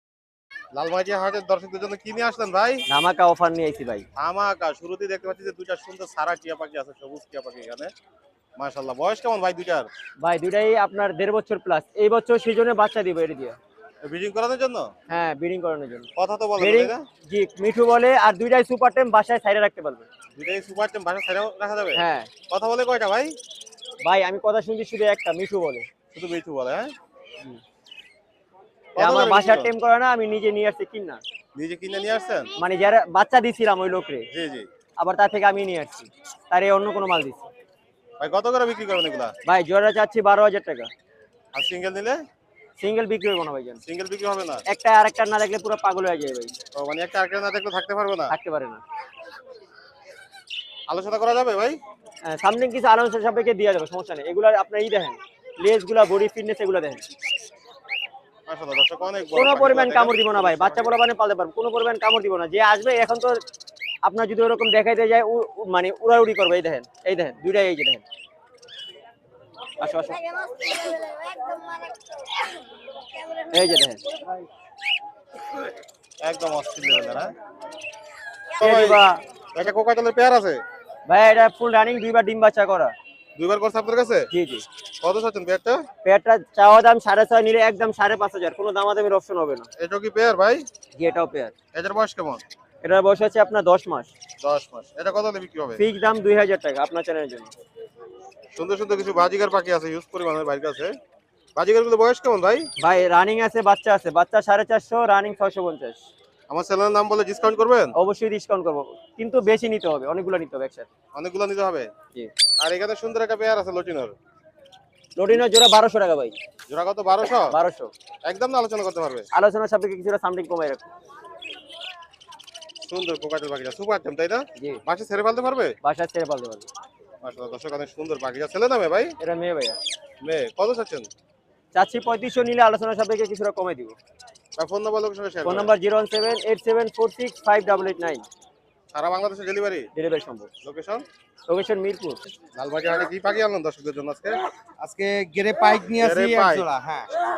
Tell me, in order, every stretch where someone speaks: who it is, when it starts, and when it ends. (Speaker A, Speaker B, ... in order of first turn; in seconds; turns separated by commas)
Speaker A: 0.7-2.8, Speaker B: 2.9-4.0, Speaker A: 4.2-7.9, Speaker A: 8.6-9.9, Speaker B: 10.2-13.6, Speaker A: 14.0-14.9, Speaker B: 15.1-20.0, Speaker A: 16.2-17.0, Speaker A: 20.4-23.3, Speaker B: 21.9-22.3, Speaker B: 24.0-25.9, Speaker A: 26.1-26.9, Speaker A: 28.9-29.7, Speaker B: 29.0-31.2, Speaker A: 31.5-32.5, Speaker B: 32.6-34.2, Speaker A: 34.3-34.7, Speaker B: 35.0-37.5, Speaker A: 38.2-39.3, Speaker B: 39.5-40.9, Speaker A: 41.5-42.1, Speaker B: 42.8-43.8, Speaker A: 43.9-44.6, Speaker B: 44.7-46.5, Speaker A: 46.7-48.3, Speaker B: 48.3-48.8, Speaker A: 50.9-51.8, Speaker B: 52.3-57.0, Speaker A: 58.5-60.9, Speaker B: 59.3-63.4, Speaker B: 64.0-68.0, Speaker B: 69.8-70.2, Speaker B: 73.5-74.0, Speaker A: 76.2-77.3, Speaker A: 78.6-79.0, Speaker B: 78.6-79.2, Speaker A: 79.5-80.6, Speaker B: 81.1-82.9, Speaker A: 83.4-84.3, Speaker B: 84.3-84.6, Speaker A: 85.0-85.8, Speaker B: 86.0-89.7, Speaker A: 89.8-90.7, Speaker B: 91.0-91.5, Speaker A: 91.7-92.4, Speaker B: 92.8-94.1, Speaker A: 94.4-95.8, Speaker B: 95.8-97.5, Speaker A: 98.5-100.9, Speaker A: 101.5-102.7, Speaker B: 102.8-106.0, Speaker A: 106.5-107.9, Speaker B: 108.0-110.9, Speaker A: 111.1-111.9, Speaker A: 112.6-114.2, Speaker B: 115.2-116.3, Speaker A: 116.7-117.5, Speaker B: 117.5-117.9, Speaker A: 118.2-119.2, Speaker B: 119.3-120.9, Speaker A: 122.8-125.7, Speaker B: 125.8-126.7, Speaker A: 127.2-129.1, Speaker B: 129.2-129.8, Speaker A: 130.2-131.1, Speaker B: 131.7-133.9, Speaker A: 134.6-135.7, Speaker B: 135.4-138.2, Speaker A: 138.9-139.9, Speaker B: 139.9-140.5, Speaker A: 140.6-141.0, Speaker B: 141.5-142.2, Speaker A: 142.6-144.4, Speaker C: 144.8-147.1, Speaker A: 145.9-146.7